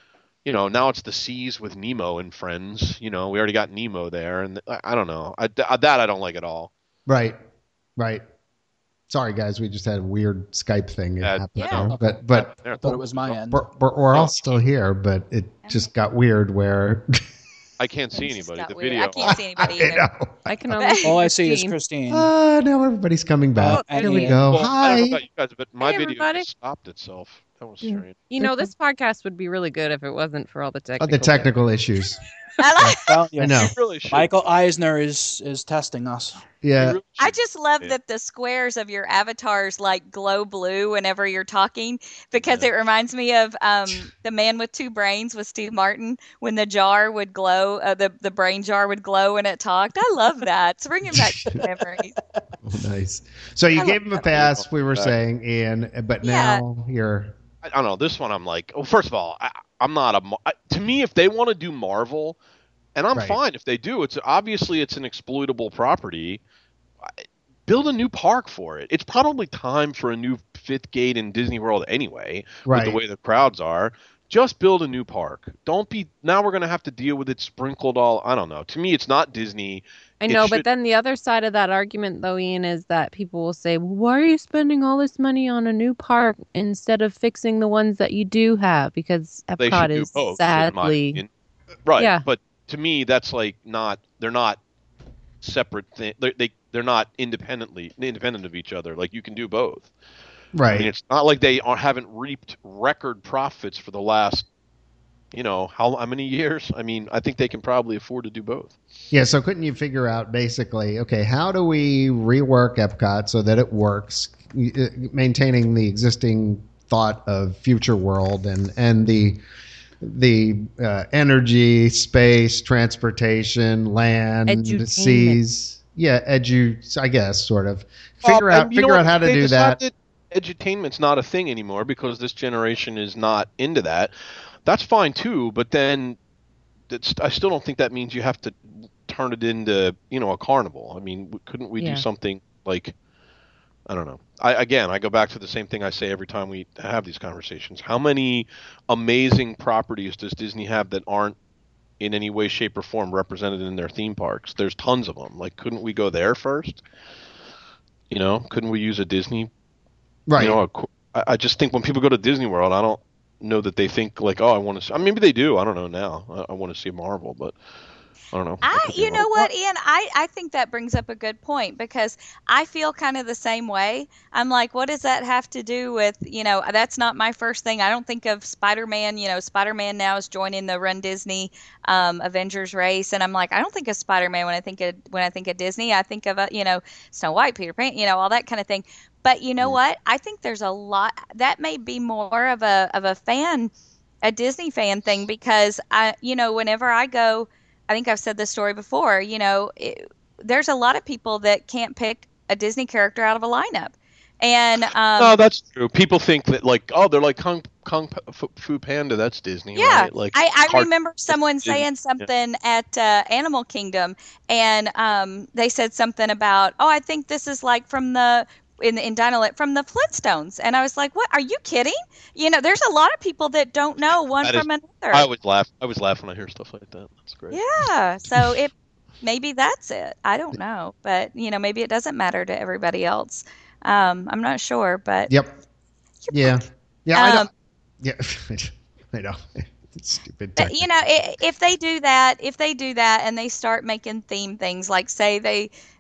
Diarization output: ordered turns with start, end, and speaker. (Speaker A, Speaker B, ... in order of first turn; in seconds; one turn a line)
Speaker A: 0.5-6.7
Speaker B: 7.1-7.4
Speaker B: 8.0-8.2
Speaker B: 9.1-12.5
Speaker A: 11.2-13.4
Speaker C: 11.9-13.7
Speaker B: 13.5-17.1
Speaker A: 14.1-14.6
Speaker D: 15.6-15.9
Speaker A: 17.8-19.4
Speaker D: 18.1-20.1
Speaker B: 19.2-21.1
Speaker E: 20.5-21.8
Speaker D: 20.8-21.2
Speaker C: 21.0-22.3
Speaker B: 22.1-25.2
Speaker C: 23.6-24.7
Speaker E: 23.7-24.4
Speaker A: 24.4-28.2
Speaker E: 25.8-26.5
Speaker B: 27.8-28.7
Speaker E: 28.3-31.5
Speaker B: 31.0-32.2
Speaker D: 32.6-33.1
Speaker B: 32.8-33.7
Speaker C: 32.9-36.4
Speaker A: 33.5-34.3
Speaker B: 36.6-37.0
Speaker A: 36.8-38.0
Speaker D: 37.2-52.1
Speaker A: 42.4-42.7
Speaker B: 51.1-51.6
Speaker B: 52.6-57.4
Speaker A: 54.3-55.1
Speaker D: 56.2-56.6
Speaker A: 57.6-62.4
Speaker A: 63.0-66.4
Speaker B: 63.1-63.4
Speaker A: 67.0-80.7
Speaker B: 72.7-73.0
Speaker E: 80.2-91.2
Speaker A: 89.6-91.3
Speaker A: 91.8-94.6
Speaker E: 92.0-92.2
Speaker A: 95.4-99.9
Speaker B: 100.5-100.9
Speaker A: 100.7-104.5
Speaker A: 105.3-108.8
Speaker B: 109.1-119.4
Speaker B: 120.0-129.8
Speaker E: 124.5-125.4
Speaker A: 128.2-134.1
Speaker A: 134.7-136.2
Speaker A: 136.9-142.9
Speaker E: 141.8-142.1
Speaker A: 143.9-151.4
Speaker A: 152.0-156.8
Speaker A: 158.1-159.5
Speaker B: 160.3-160.6
Speaker A: 160.4-167.6
Speaker A: 168.3-169.3
Speaker D: 168.6-193.7
Speaker D: 194.2-205.4
Speaker A: 205.2-212.3
Speaker D: 209.8-225.3
Speaker A: 224.4-227.6
Speaker D: 227.5-235.3
Speaker B: 235.3-235.6
Speaker D: 236.2-236.6
Speaker B: 236.3-237.5
Speaker D: 237.2-237.5
Speaker B: 238.0-241.1
Speaker D: 240.6-245.7